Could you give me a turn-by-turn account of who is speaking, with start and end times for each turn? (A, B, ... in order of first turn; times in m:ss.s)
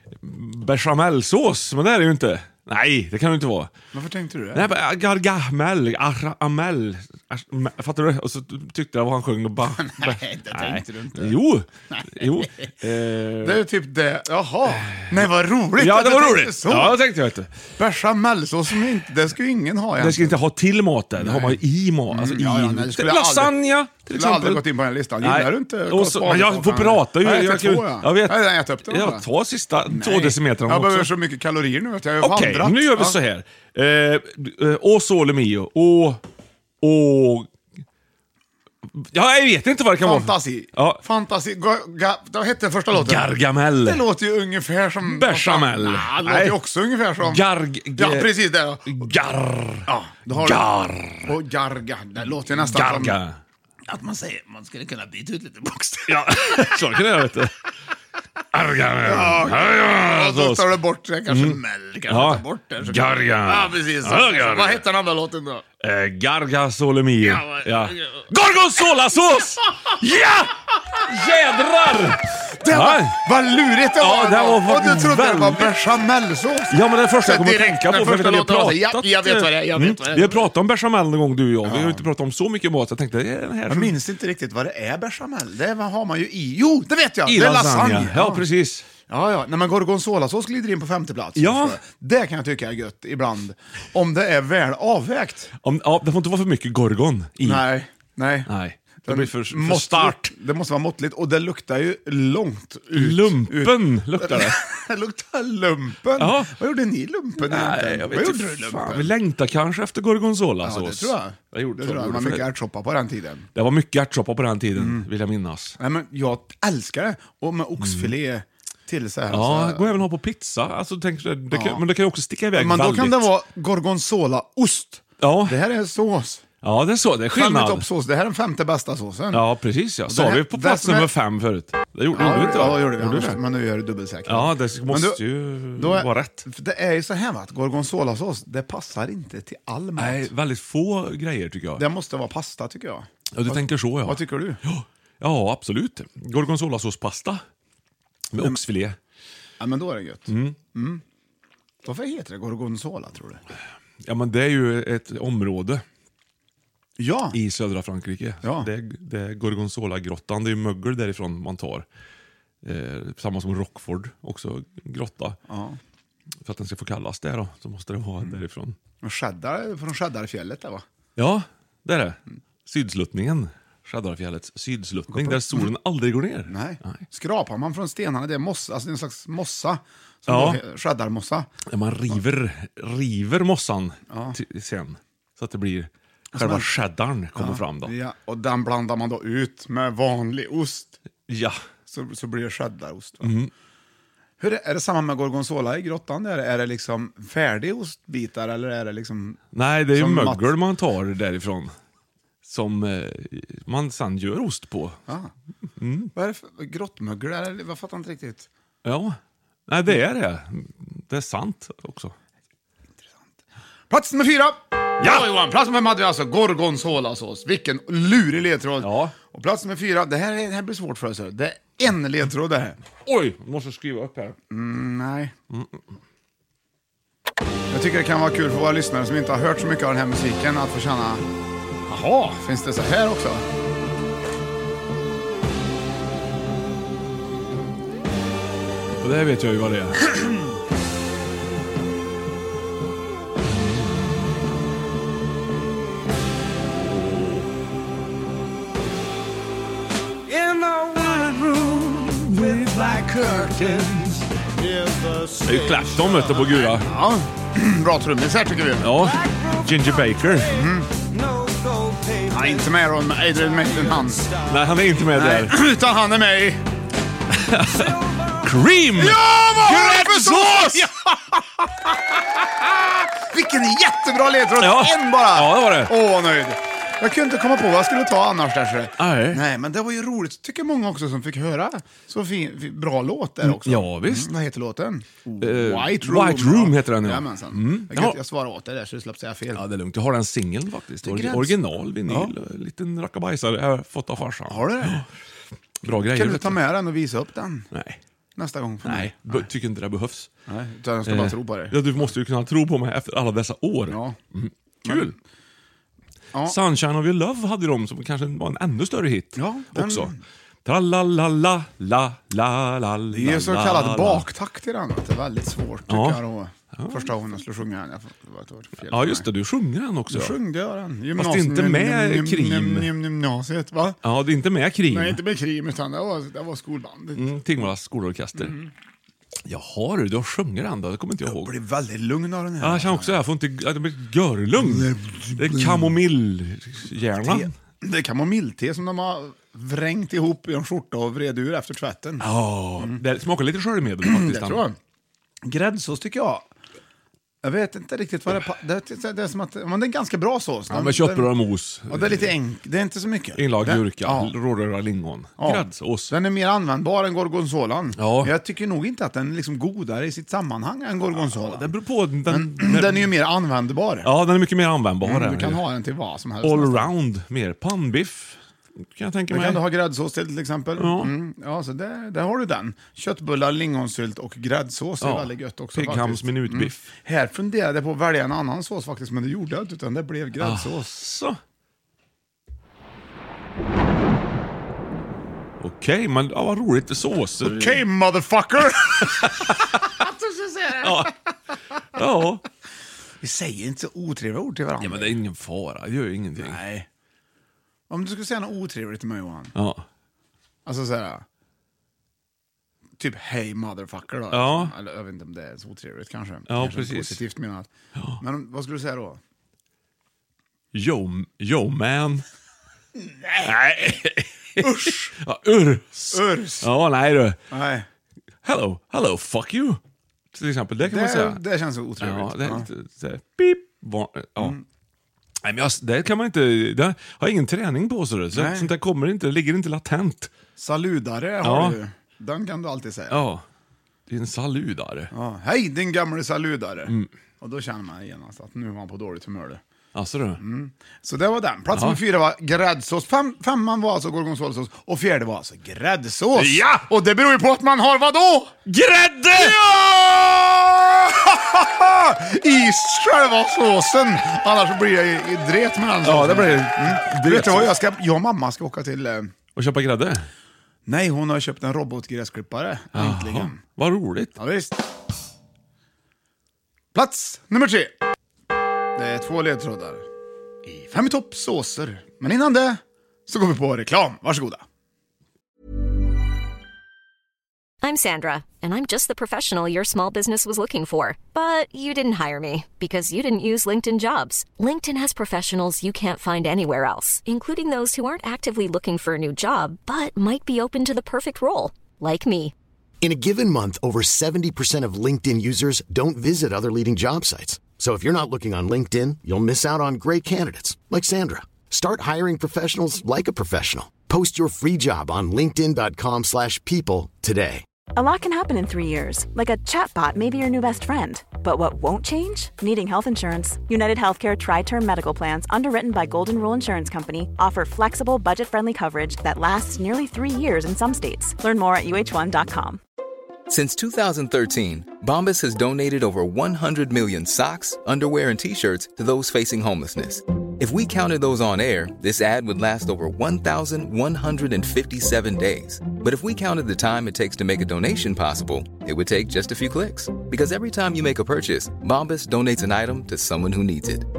0:00.2-0:03.7 A
0:03.9-0:04.7 B
0:04.5-0:13.6 A
0:09.9-0:11.4 B
0:13.4-0:17.0 B
0:14.9-0:17.6 A
0:17.8-0:20.4 B
0:20.0-0:24.6 A
0:21.2-0:23.5 B
0:24.1-0:29.3 B
0:25.2-0:31.1 A
0:29.9-0:33.2 B
0:32.2-0:36.2 A
0:36.8-0:37.5 A
0:39.0-0:41.0 A
0:40.0-0:43.3 B
0:42.9-0:44.0 A
0:43.8-0:47.4 B
0:45.0-0:46.6 A
0:47.2-0:48.3 A
0:48.0-0:49.1 B
0:48.8-0:51.3 A
0:49.9-0:50.7 B
0:51.2-0:53.2 B
0:52.5-0:53.4 A
0:53.9-0:57.0 B
0:56.1-0:57.5 A
0:58.5-1:00.7 A
0:59.0-1:05.6 B
1:01.3-1:04.8 A
1:05.8-1:13.2 A
1:07.2-1:08.2 B
1:12.6-1:20.5 B
1:14.0-1:15.8 A
1:16.7-1:24.0 A
1:21.6-1:22.0 B
1:23.7-1:28.4 B
1:27.2-1:28.8 A
1:29.1-1:35.5 B
1:31.4-1:31.8 A
1:35.6-1:37.6 A
1:37.4-1:38.5 B
1:38.5-1:40.3 A
1:39.0-1:49.1 B
1:42.9-1:44.6 A
1:46.2-1:46.5 A
1:47.4-1:52.5 A
1:50.6-1:53.5 B
1:53.5-1:55.8 A
1:54.8-1:55.1 B
1:55.8-2:00.0 B
1:57.8-1:58.1 A
1:59.3-2:03.3 A
2:01.5-2:01.8 B
2:02.5-2:06.4 B
2:05.2-2:05.6 A
2:06.6-2:07.8 A
2:07.3-2:09.4 B
2:09.3-2:13.4 A
2:10.1-2:11.1 B
2:12.1-2:15.2 B
2:14.2-2:16.4 A
2:15.8-2:20.3 B
2:20.0-2:21.8 A
2:21.8-2:24.6 B
2:23.3-2:27.4 A
2:28.3-2:29.0 A
2:29.6-2:31.0 B
2:30.3-2:30.6 A
2:31.8-2:33.4 B
2:34.0-2:35.8 A
2:37.0-2:37.4 B
2:37.3-2:41.8 A
2:38.4-2:38.7 B
2:42.6-2:45.4 A
2:45.5-2:45.8 B
2:46.4-2:48.8 A
2:49.0-2:50.8 B
2:51.2-2:57.0 A
2:55.1-2:55.7 B
2:56.5-3:01.5 B
3:00.3-3:00.6 A
3:01.7-3:07.9 A
3:04.1-3:04.4 B
3:06.3-3:06.7 B
3:07.4-3:11.0 B
3:11.3-3:11.6 A
3:11.9-3:13.3 B
3:13.2-3:13.5 A
3:14.4-3:20.5 B
3:19.5-3:21.7 A
3:22.4-3:25.0 A
3:25.8-3:26.1 A
3:26.1-3:28.5 B
3:28.8-3:29.2 A
3:29.7-3:32.1 A
3:33.9-3:42.8 B
3:35.0-3:35.3 A
3:38.8-3:39.1 A
3:43.0-3:44.4 A
3:44.5-3:45.3 B
3:45.5-3:45.8 A
3:47.7-3:51.2 B
3:51.9-3:53.4 B
3:59.0-4:00.2 A
4:03.5-4:03.9 A
4:06.7-4:07.5 A
4:10.4-4:14.2 A
4:15.4-4:16.9 A
4:16.8-4:19.0 B
4:18.8-4:20.5 A
4:20.5-4:20.9 B
4:22.3-4:24.3 B
4:24.4-4:25.6 A
4:25.1-4:26.6 B
4:27.3-4:30.9 A
4:29.0-4:49.6 B
4:34.6-4:35.9 A
4:39.0-4:39.4 A
4:43.4-4:44.3 A
4:45.4-4:48.2 A
4:49.5-4:55.1 A
4:51.0-4:52.3 B
4:54.4-4:55.0 B
4:55.8-4:56.6 A
4:56.1-4:57.7 B
4:57.7-4:58.0 A
4:58.4-4:59.5 B
4:58.8-5:00.3 A
5:00.5-5:02.1 B
5:01.0-5:05.2 A
5:03.9-5:04.2 B
5:04.8-5:05.1 B
5:06.4-5:10.1 A
5:09.4-5:10.2 B
5:10.6-5:14.2 A
5:13.1-5:19.3 B
5:15.9-5:16.2 A
5:16.7-5:17.1 A
5:18.9-5:20.4 A
5:20.1-5:24.0 B
5:21.2-5:22.9 A
5:24.0-5:25.2 A
5:24.9-5:27.4 B
5:27.1-5:28.6 A
5:28.4-5:28.7 B
5:29.5-5:31.5 A
5:31.2-5:33.2 B
5:32.6-5:37.5 A
5:34.6-5:36.0 B
5:37.2-5:42.3 B
5:42.2-5:44.6 A
5:44.0-5:44.8 B
5:45.4-5:46.5 B
5:47.4-5:51.3 B
5:50.7-5:52.3 A
5:51.9-5:54.3 B
5:53.4-5:56.1 A
5:55.4-6:01.7 B
5:58.0-5:58.3 A
6:01.1-6:03.1 A
6:02.3-6:04.1 B
6:04.0-6:05.6 A
6:05.0-6:06.9 B
6:06.4-6:09.6 A
6:09.3-6:20.9 B
6:10.8-6:11.1 A
6:15.0-6:16.9 A
6:20.4-6:21.4 A
6:25.6-6:27.8 A
6:27.4-6:31.1 B
6:29.1-6:29.7 A
6:30.8-6:31.1 A
6:31.9-6:32.4 A
6:33.2-6:35.2 B
6:34.8-6:36.6 A
6:36.4-6:36.9 B
6:37.9-6:39.5 B
6:39.6-6:39.8 A
6:40.6-6:41.2 B
6:43.0-6:47.7 B
6:44.3-6:44.7 A
6:46.5-6:47.2 A
6:48.2-6:49.2 B
6:50.7-6:52.2 A
6:53.1-6:53.5 B
6:53.4-6:57.4 A
6:54.6-6:55.1 B
6:56.1-6:56.7 B
6:57.5-6:57.9 B
6:58.4-6:59.8 A
7:00.3-7:01.4 A
7:00.8-7:02.7 B
7:02.0-7:04.6 A
7:04.4-7:04.6 B
7:05.4-7:10.3 A
7:08.3-7:08.7 B
7:10.6-7:13.2 B
7:11.4-7:11.8 A
7:13.1-7:13.4 A
7:14.1-7:15.1 A
7:15.1-7:19.6 B
7:19.9-7:20.4 A
7:20.4-7:28.6 B
7:21.7-7:22.0 A
7:26.4-7:26.8 A
7:28.6-7:30.4 A
7:29.3-7:39.3 B
7:36.0-7:37.7 A
7:39.5-7:40.3 A
7:40.8-7:43.6 B
7:42.9-7:44.4 A
7:44.4-7:44.7 B
7:46.9-7:47.9 B
7:49.0-7:50.0 B
7:50.6-7:54.6 B
7:57.8-8:12.5 C
8:13.0-8:27.6 D
8:27.9-8:42.8 E
8:43.5-9:04.0 F